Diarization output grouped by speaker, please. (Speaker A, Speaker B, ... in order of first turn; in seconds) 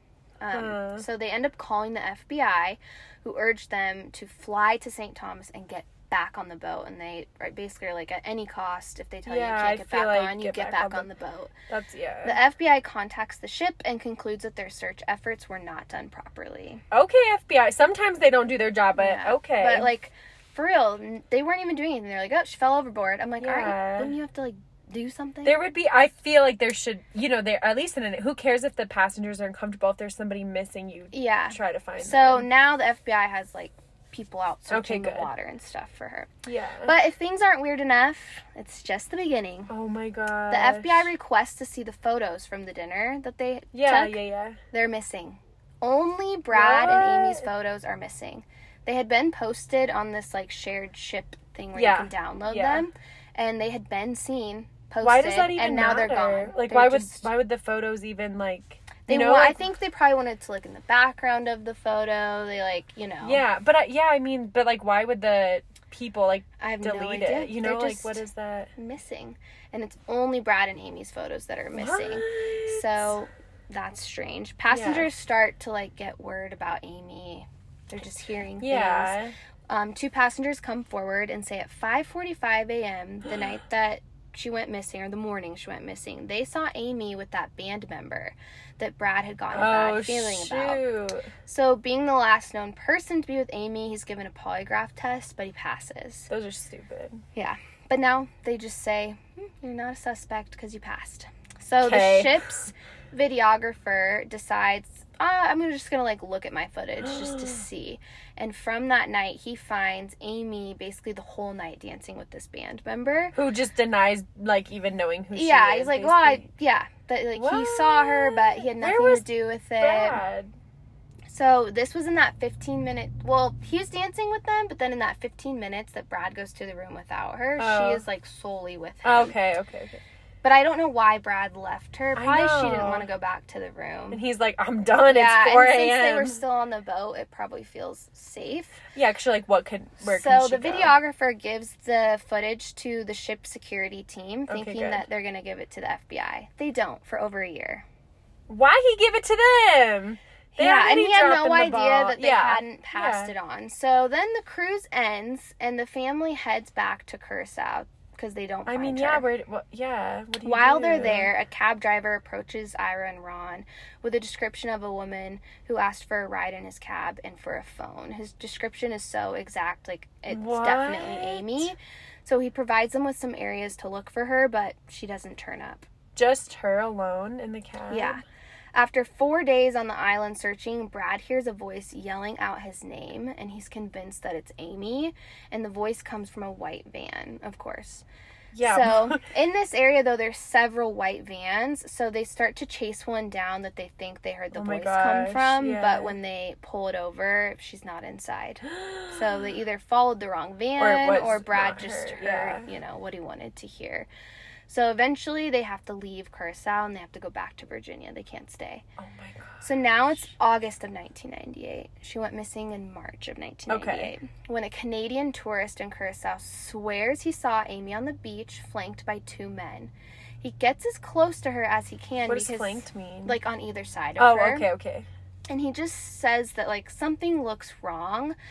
Speaker A: 0.4-11.5, 12.2-16.8, 19.0-25.6, 31.1-36.3, 36.9-39.7, 40.5-44.2, 44.7-57.3, 59.1-63.4, 66.6-68.2, 68.8-90.8, 91.5-96.3, 97.3-113.3, 115.3-120.2, 121.3-129.3, 130.4-134.2, 135.1-138.8, 140.0-147.8, 150.6-159.2, 160.4-175.8, 177.9-178.2, 178.7-188.1, 188.6-204.1, 204.7-208.8, 209.6-224.7, 225.5-228.3
Speaker B: 0.5-1.1, 9.3-11.1, 11.7-12.4, 16.9-19.9, 23.4-24.1, 25.4-32.5, 34.7-35.3, 36.5-37.0, 39.7-41.1, 43.7-44.6, 46.5-47.5, 51.8-52.9, 55.0-59.6, 63.2-68.7, 71.7-73.2, 74.7-75.1, 78.6-79.3, 89.5-91.3, 96.3-97.2, 101.8-102.5, 107.0-107.6, 113.3-116.4, 117.3-120.5, 127.6-128.0, 129.0-130.0, 132.2-133.1, 134.1-136.4, 138.9-141.0, 144.5-145.1, 148.5-153.3, 158.7-161.3, 170.3-171.7, 176.2-178.2, 188.5-189.2, 194.5-196.2, 198.6-199.5, 200.8-202.7, 209.0-209.8, 213.7-214.1, 222.3-223.4, 224.2-225.1